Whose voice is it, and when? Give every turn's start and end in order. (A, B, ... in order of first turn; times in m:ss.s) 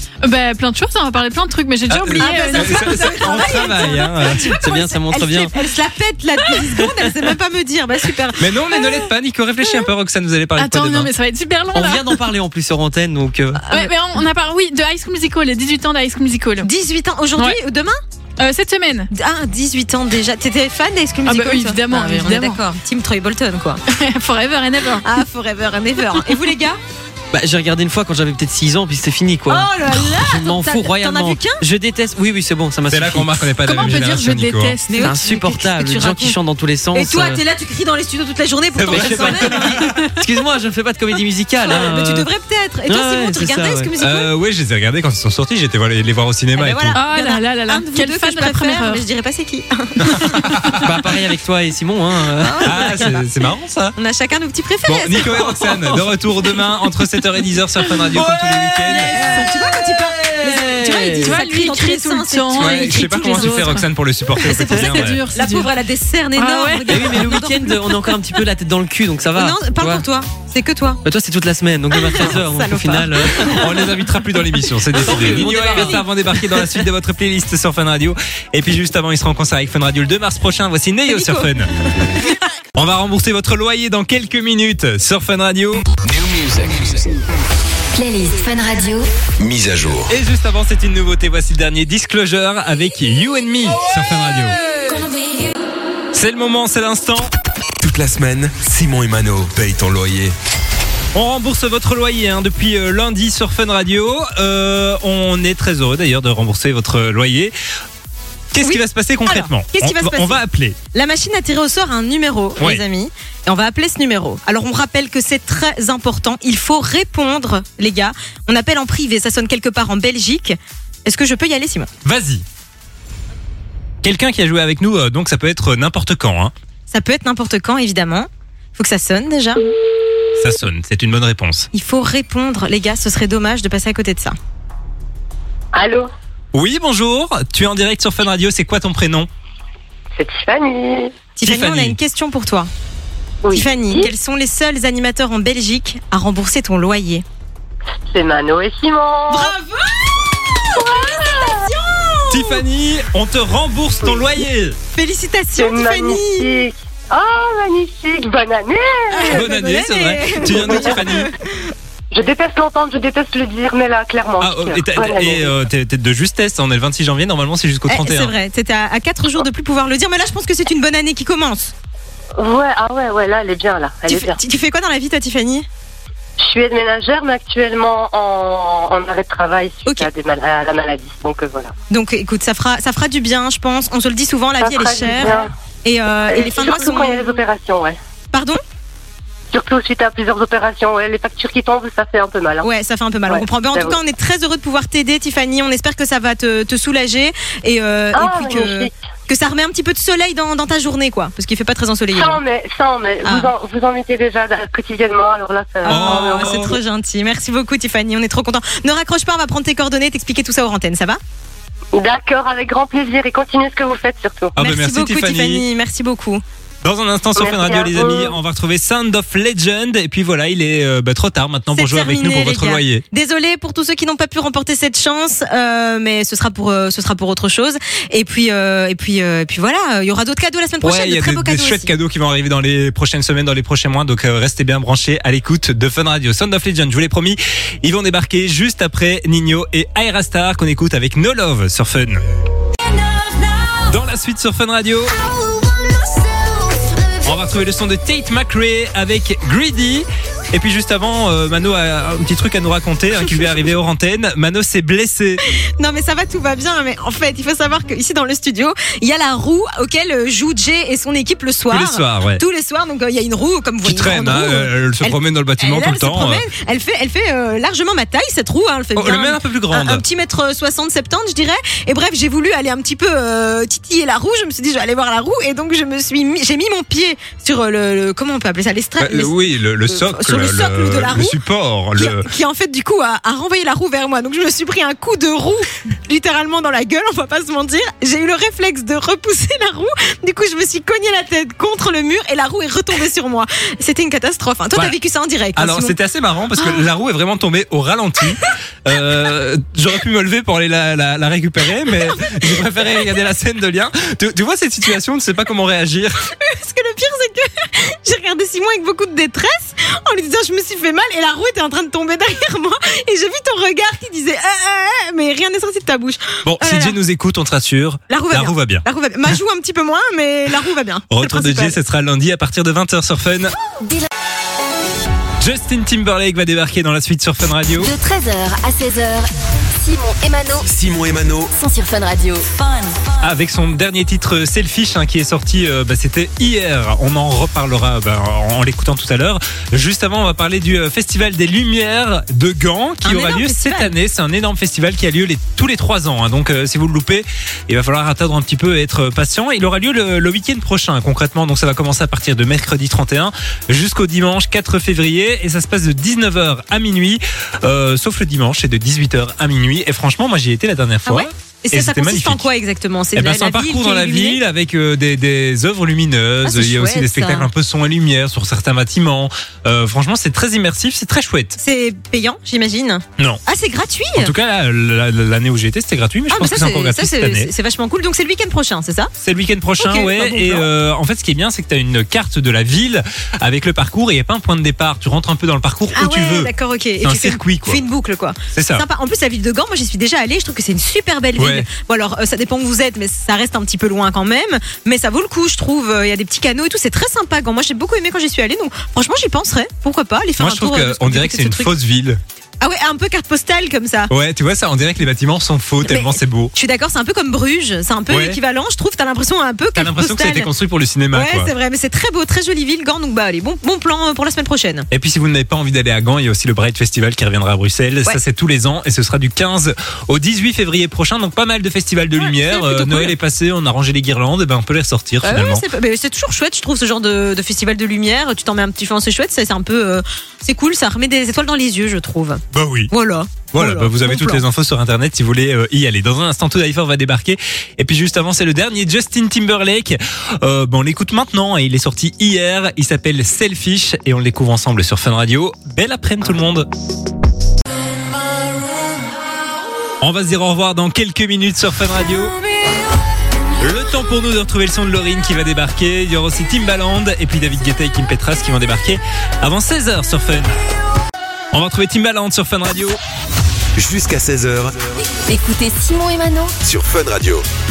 0:00.2-0:03.2 A
0:01.9-0:04.6 B
0:02.2-0:08.8 C
0:04.4-0:05.5 D
0:08.4-0:11.1 B
0:10.6-0:12.2 A
0:11.7-0:13.6 D
0:13.7-0:16.7 A
0:16.6-0:18.0 C
0:18.4-0:19.1 A
0:19.1-0:23.8 C
0:21.2-0:22.6 A
0:23.9-0:25.2 A
0:25.0-0:26.8 C
0:26.2-0:26.4 A
0:27.3-0:33.5 D
0:29.5-0:31.6 C
0:32.9-0:34.8 B
0:33.6-0:35.1 A
0:34.9-0:36.4 C
0:35.0-0:37.4 D
0:36.9-0:39.9 C
0:38.8-0:40.0 B
0:38.9-0:42.3 D
0:41.7-0:44.3 C
0:42.9-0:43.9 D
0:44.0-0:47.0 B
0:46.6-0:50.7 C
0:46.9-0:49.0 A
0:50.0-0:50.8 B
0:50.8-0:53.2 D
0:52.4-0:53.2 C
0:52.6-0:54.0 B
0:54.0-0:55.5 C
0:54.9-0:59.1 B
0:55.5-0:56.0 D
0:58.1-1:01.4 D
0:58.8-1:03.8 C
1:00.8-1:03.8 A
1:02.6-1:05.2 B
1:04.4-1:08.1 C
1:04.5-1:05.7 A
1:06.4-1:07.3 A
1:06.9-1:10.0 D
1:09.4-1:11.0 C
1:11.0-1:13.8 D
1:12.0-1:13.8 C
1:13.5-1:21.7 B
1:14.9-1:16.0 D
1:15.1-1:16.7 C
1:21.1-1:21.5 C
1:22.8-1:25.8 B
1:26.2-1:27.1 E
1:27.9-1:29.1 F
1:29.4-1:30.1 E
1:30.1-1:35.0 B
1:36.1-1:37.3 B
1:37.8-1:40.4 E
1:41.1-1:47.5 B
1:48.5-1:50.8 B
1:48.6-1:50.4 C
1:50.9-2:01.9 C
2:02.0-2:02.4 B
2:04.0-2:06.5 B
2:06.9-2:09.7 C
2:10.4-2:11.7 B
2:11.7-2:14.4 C
2:15.7-2:16.1 G
2:16.5-2:19.3 B
2:20.2-2:21.2 G
2:21.4-2:22.7 C
2:21.4-2:22.0 B
2:23.4-2:24.1 G
2:23.5-2:27.2 C
2:28.1-2:29.5 G
2:29.3-2:32.6 C
2:30.7-2:31.6 G
2:32.3-2:34.8 B
2:35.0-2:36.5 C
2:35.6-2:39.4 G
2:39.1-2:41.5 C
2:39.3-2:41.3 B
2:42.1-2:45.5 G
2:44.4-2:48.4 B
2:47.9-2:51.7 C
2:52.4-2:54.4 G
2:54.1-2:55.7 C
2:56.4-3:01.7 G
3:01.9-3:07.3 C
3:04.6-3:05.5 G
3:06.3-3:08.0 G
3:08.3-3:08.6 C
3:09.5-3:12.7 G
3:12.6-3:22.4 C
3:13.3-3:14.0 G
3:18.1-3:18.9 G
3:22.2-3:26.7 G
3:23.2-3:23.5 C
3:25.8-3:31.2 C
3:25.9-3:26.7 B
3:32.0-3:34.5 G
3:34.6-3:35.6 B
3:34.6-3:36.4 C
3:36.8-3:43.0 B
3:37.4-3:38.4 G
3:41.7-3:51.9 C
3:50.8-4:02.2 B
4:03.8-4:05.2 B
4:07.2-4:15.4 B
4:15.8-4:41.4 C
4:21.7-4:22.4 B
4:23.8-4:26.4 B
4:29.0-4:30.0 B
4:39.0-4:42.3 B
4:42.0-4:56.0 C
4:55.6-5:06.3 B
5:02.0-5:02.6 C
5:06.3-5:17.0 C
5:16.4-5:18.8 B
5:18.1-5:21.8 C
5:21.1-5:23.5 B
5:23.6-5:24.1 F
5:25.4-5:27.9 B
5:27.8-5:30.7 F
5:30.6-5:31.5 E
5:31.5-5:33.3 F
5:33.2-6:02.4 B
5:43.0-5:43.9 C
6:01.1-6:04.4 C
6:03.2-6:11.6 B
6:06.4-6:07.5 C
6:11.6-6:14.3 C
6:14.2-6:17.5 B
6:16.3-6:19.1 C
6:19.2-6:26.5 B
6:19.8-6:20.7 C
6:26.0-6:41.7 C
6:27.0-6:27.8 B
6:28.5-6:28.8 B
6:31.4-6:31.7 B
6:40.4-6:42.2 B
6:42.6-6:44.1 C
6:44.1-6:46.5 B
6:45.8-6:50.5 C
6:48.1-6:48.4 B
6:49.8-6:51.5 B
6:51.1-6:54.9 C
6:54.9-7:05.6 B
7:02.2-7:03.2 C
7:05.2-7:14.4 C
7:12.5-7:12.9 B
7:13.5-7:26.7 B
7:30.0-7:32.4 B
7:33.6-7:40.5 B
7:41.5-7:43.0 B
7:43.8-7:44.9 E
7:45.3-7:46.6 F
7:46.6-7:47.4 E